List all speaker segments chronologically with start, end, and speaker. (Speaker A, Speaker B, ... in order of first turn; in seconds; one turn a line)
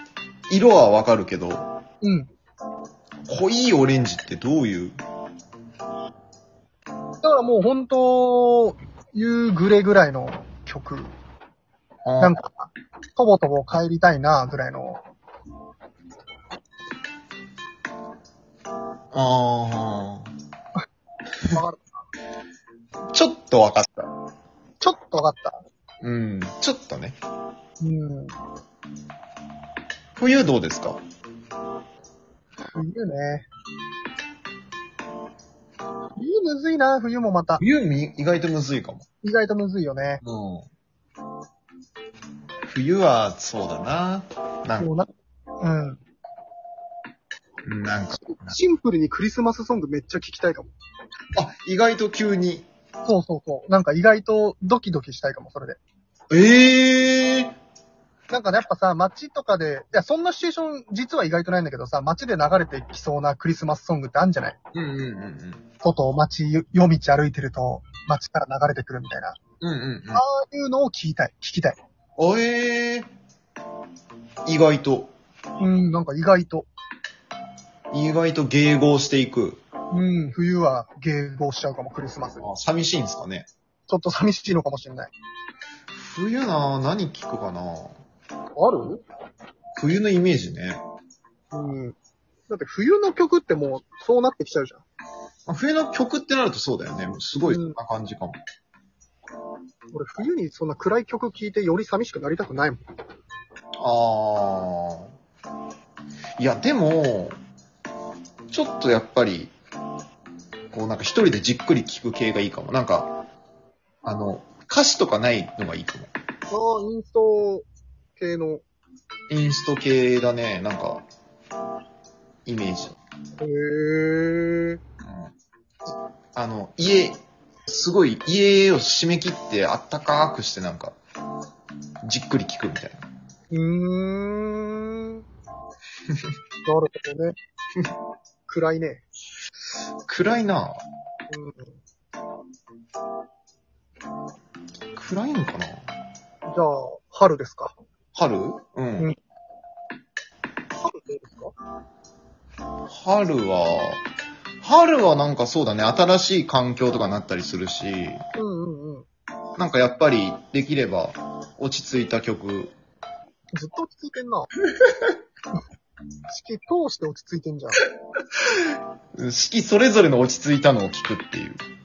Speaker A: 0.5-1.7
Speaker B: 2.0-2.3
Speaker A: 3.3-5.0
Speaker B: 7.2-11.2
Speaker A: 12.1-12.4
Speaker B: 12.2-15.0
Speaker A: 19.1-20.3
Speaker B: 21.5-21.9
Speaker A: 23.1-24.1
Speaker B: 24.8-25.6
Speaker A: 26.0-27.2
Speaker B: 27.8-28.4
Speaker A: 30.2-31.0
Speaker B: 32.8-33.5
Speaker B: 36.2-37.6
Speaker A: 37.6-39.1
Speaker B: 39.2-40.2
Speaker A: 40.2-40.7
Speaker A: 42.7-44.9
Speaker B: 44.8-46.0
Speaker A: 47.6-48.6
Speaker B: 48.3-50.7
Speaker A: 51.4-52.7
Speaker B: 53.0-55.8
Speaker A: 56.3-57.5
Speaker B: 58.3-64.6
Speaker A: 64.7-65.7
Speaker B: 65.8-69.4
Speaker A: 69.6-70.2
Speaker B: 70.1-71.8
Speaker A: 72.2-73.1
Speaker A: 74.5-75.1
Speaker B: 75.6-76.7
Speaker A: 77.9-79.6
Speaker B: 79.9-82.5
Speaker A: 82.4-83.5
Speaker B: 83.9-85.1
Speaker A: 85.9-88.0
Speaker B: 88.6-89.0
Speaker A: 89.8-90.8
Speaker B: 91.5-92.0
Speaker B: 92.5-94.8
Speaker A: 95.5-98.4
Speaker B: 97.4-97.8
Speaker B: 99.9-102.8
Speaker A: 103.8-105.1
Speaker A: 106.4-107.4
Speaker A: 108.5-109.5
Speaker A: 110.7-113.1
Speaker A: 114.0-116.1
Speaker B: 116.5-118.6
Speaker A: 119.3-121.0
Speaker A: 122.5-123.0
Speaker B: 123.4-124.8
Speaker A: 125.0-125.3
Speaker A: 126.3-131.0
Speaker A: 132.0-133.1
Speaker B: 133.5-135.2
Speaker A: 136.1-136.3
Speaker B: 136.7-137.4
Speaker B: 138.5-139.0
Speaker A: 140.1-140.8
Speaker B: 141.3-141.8
Speaker A: 145.0-145.9
Speaker B: 146.5-147.8
Speaker A: 148.1-149.1
Speaker B: 150.8-151.5
Speaker A: 152.9-154.0
Speaker A: 154.6-158.2
Speaker B: 158.4-159.1
Speaker A: 159.6-162.7
Speaker B: 163.5-164.5
Speaker A: 164.8-165.1
Speaker B: 166.3-167.8
Speaker A: 168.3-171.6